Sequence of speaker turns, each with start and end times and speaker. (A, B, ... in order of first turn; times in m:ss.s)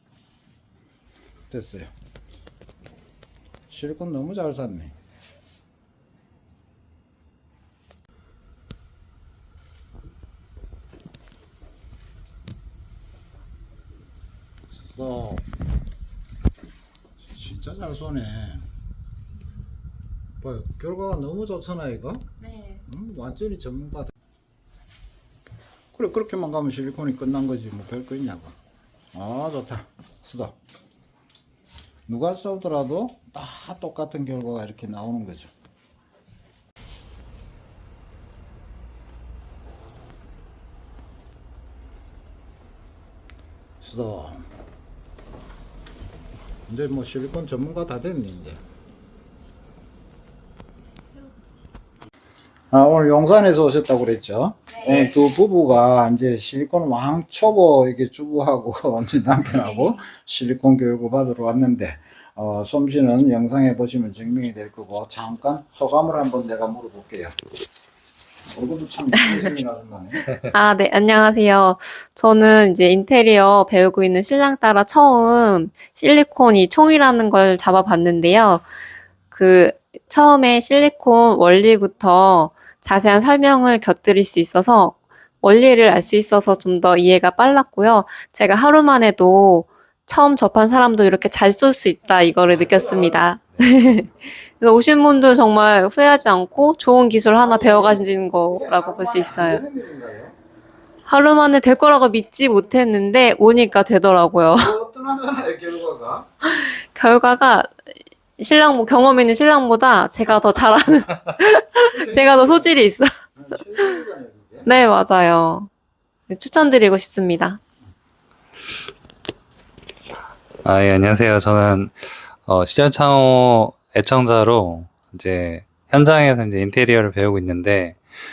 0:01.5-0:01.9 A
0:03.7-0:04.9 A
0:14.7-0:15.4 A
0:17.2-0:18.6 A
0:20.4-0:22.3 A
0:22.4-0:22.8 B
0:22.9-0:24.1 A
0:25.9-0:28.5 A
0:29.1-0:30.6 A
0:32.1-0:35.5 A
0:43.8-0:44.4 A
0:46.7-0:48.6 A
0:52.7-1:07.4 A
0:59.4-1:00.1 B
1:08.5-1:10.2 A
1:09.1-1:09.5 B
1:10.5-1:18.6 B
1:19.3-1:39.6 B
1:32.5-1:33.8 A
1:37.4-1:40.4 A
1:41.1-1:44.7 B
1:44.5-1:46.2 A
1:46.4-1:47.7 B
1:48.4-1:53.1 B
1:51.9-1:52.8 A
1:53.4-1:54.7 A
1:54.6-1:55.7 B
1:56.3-1:57.6 B
2:00.6-2:08.0 C